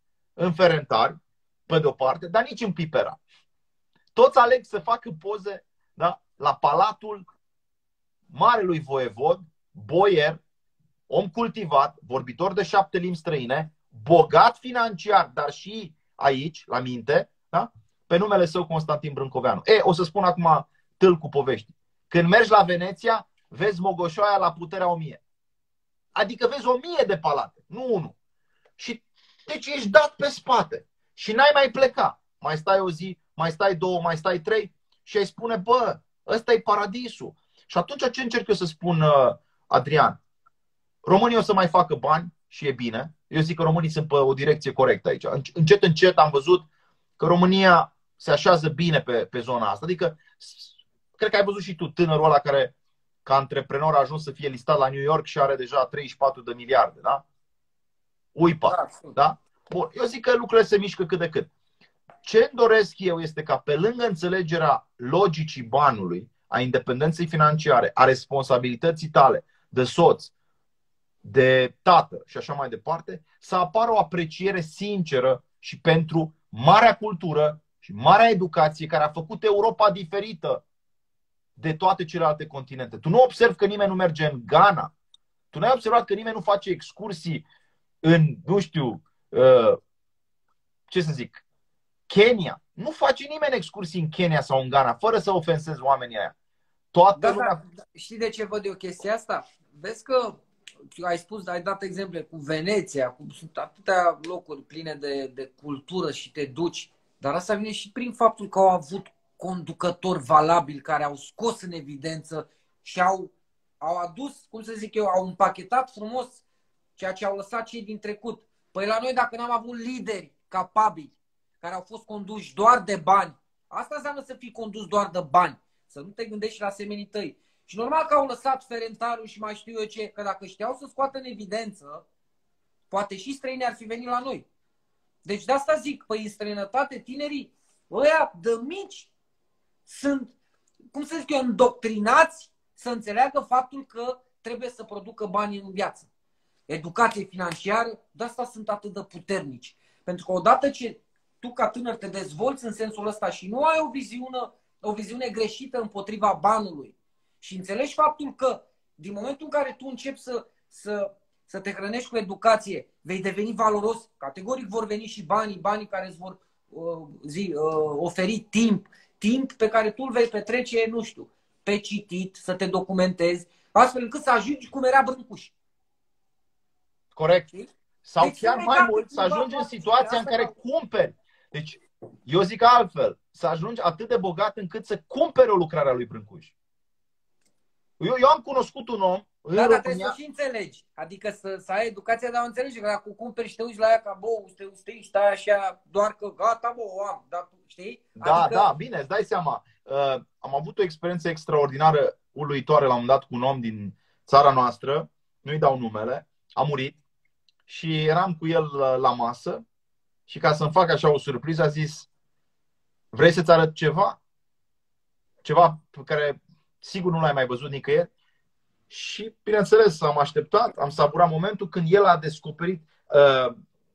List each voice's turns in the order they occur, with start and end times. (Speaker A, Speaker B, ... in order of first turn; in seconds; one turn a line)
Speaker A: 0.4-3.2
Speaker A: 4.2-7.2
Speaker A: 8.3-10.4
Speaker A: 11.1-25.2
Speaker A: 26.1-28.1
Speaker A: 28.8-40.2
Speaker A: 41.0-46.7
Speaker A: 47.2-52.7
Speaker A: 53.2-57.2
Speaker A: 58.4-61.5
Speaker B: 58.7-59.1
Speaker A: 62.2-70.3
Speaker A: 71.2-80.6
Speaker A: 81.6-84.9
Speaker A: 85.5-87.4
Speaker A: 88.0-89.8
Speaker A: 90.9-91.4
Speaker A: 92.1-96.3
Speaker A: 96.9-97.6
Speaker B: 97.2-100.4
Speaker B: 100.9-116.4
Speaker B: 117.0-132.0
Speaker B: 132.9-134.5
Speaker B: 135.2-139.1
Speaker B: 139.9-140.3
Speaker B: 140.9-146.1
Speaker B: 146.7-175.5
Speaker A: 177.2-177.5
Speaker A: 178.1-186.5
Speaker B: 178.2-180.5
Speaker A: 188.0-190.2
Speaker B: 189.6-198.7
Speaker A: 198.2-207.0
Speaker A: 207.7-209.6
Speaker A: 210.3-212.1
Speaker A: 213.1-214.2
Speaker A: 215.4-218.1
Speaker A: 218.9-223.6